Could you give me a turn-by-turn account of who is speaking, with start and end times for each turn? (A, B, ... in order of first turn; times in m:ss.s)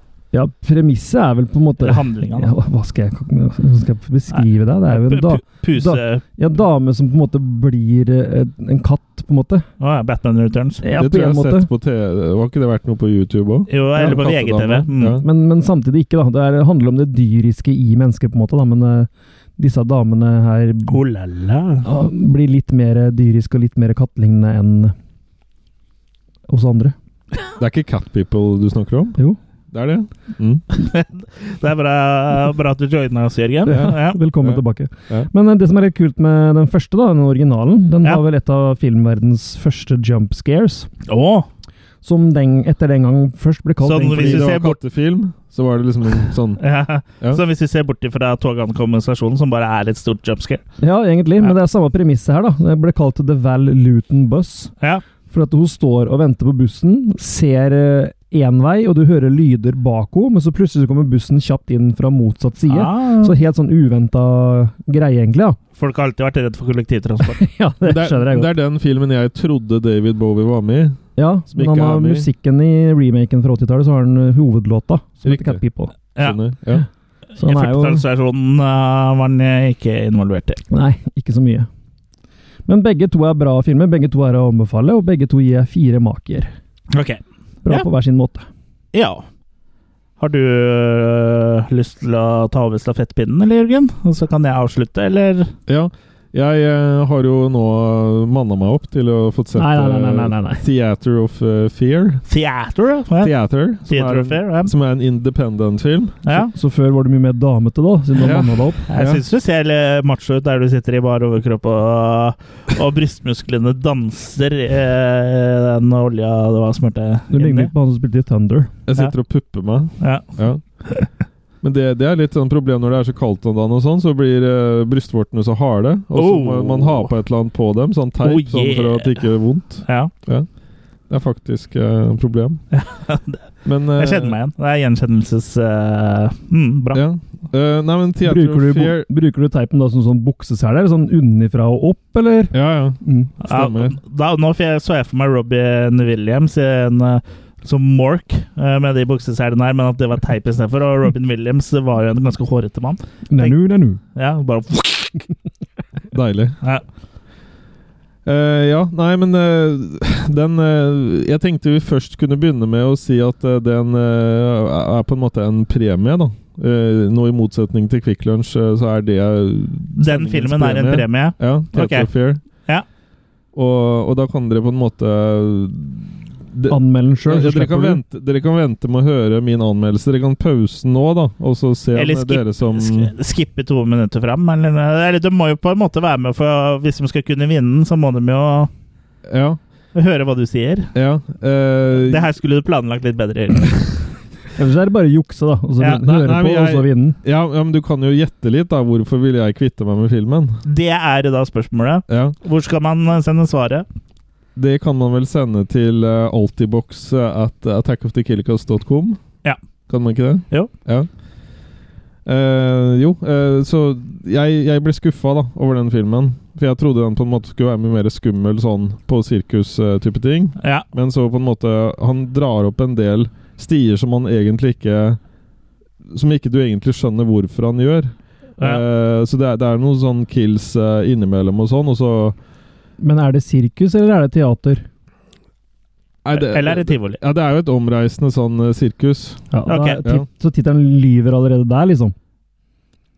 0:00.3-0:09.6 A
0:01.8-0:02.5 B
0:04.3-0:06.2 B
0:09.8-0:10.8 B
0:10.8-0:11.7 A
0:11.0-0:15.2 C
0:13.7-0:15.2 B
0:15.2-0:21.0 A
0:20.9-0:21.9 B
0:21.8-0:24.9 A
0:26.5-0:26.9 A
0:27.6-0:29.2 C
0:29.7-0:30.6 C
0:30.7-0:34.2 B
0:33.7-0:40.9 A
0:33.7-0:35.3 C
0:41.1-0:41.5 B
0:42.0-0:44.5 A
0:43.8-0:44.8 B
0:44.1-0:46.6 C
0:46.6-0:50.6 B
0:50.8-0:54.7 A
0:55.3-1:05.6 A
1:02.7-1:03.4 B
1:05.8-1:07.4 B
1:07.4-1:08.5 A
1:07.8-1:11.0 C
1:11.2-1:16.0 A
1:11.5-1:12.3 C
1:15.2-1:15.6 C
1:16.2-1:16.8 C
1:17.4-1:20.6 B
1:17.4-1:18.0 A
1:20.7-1:21.7 A
1:22.7-1:26.5 A
1:26.9-1:27.8 B
1:27.6-1:28.4 A
1:28.9-1:29.3 B
1:30.2-1:35.5 B
1:35.7-1:42.2 C
1:39.6-1:40.6 A
1:42.3-1:43.3 B
1:43.2-1:46.4 C
1:43.8-1:44.7 B
1:46.2-1:46.5 B
1:46.5-1:48.8 A
1:48.2-1:49.2 C
1:48.9-1:57.7 B
1:57.3-1:58.7 A
1:58.8-2:00.6 C
2:00.0-2:00.3 B
2:01.6-2:10.5 C
2:06.1-2:07.1 B
2:08.2-2:09.2 B
2:09.8-2:10.1 B
2:11.1-2:12.6 C
2:12.7-2:17.0 B
2:13.6-2:14.4 C
2:16.9-2:19.0 C
2:18.2-2:23.3 A
2:22.5-2:24.0 C
2:23.4-2:33.6 B
2:33.3-2:34.0 A
2:34.1-2:35.2 B
2:36.1-2:36.6 C
2:38.2-2:52.4 C
2:50.0-2:52.8 B
2:53.5-3:03.1 C
2:56.7-2:58.0 A
3:01.9-3:08.7 B
3:09.2-3:09.6 C
3:09.9-3:10.9 B
3:10.9-3:12.2 C
3:12.0-3:14.1 B
3:14.6-3:17.2 A
3:15.8-3:20.6 C
3:20.6-3:23.8 B
3:22.1-3:22.4 C
3:24.6-3:29.2 C
3:29.9-3:31.1 C
3:32.2-3:45.2 C
3:40.6-3:40.8 B
3:46.1-3:52.4 C
3:53.0-3:54.8 A
3:56.2-3:59.4 C
3:56.3-3:57.2 B
3:59.5-4:02.1 A
3:59.7-4:00.0 B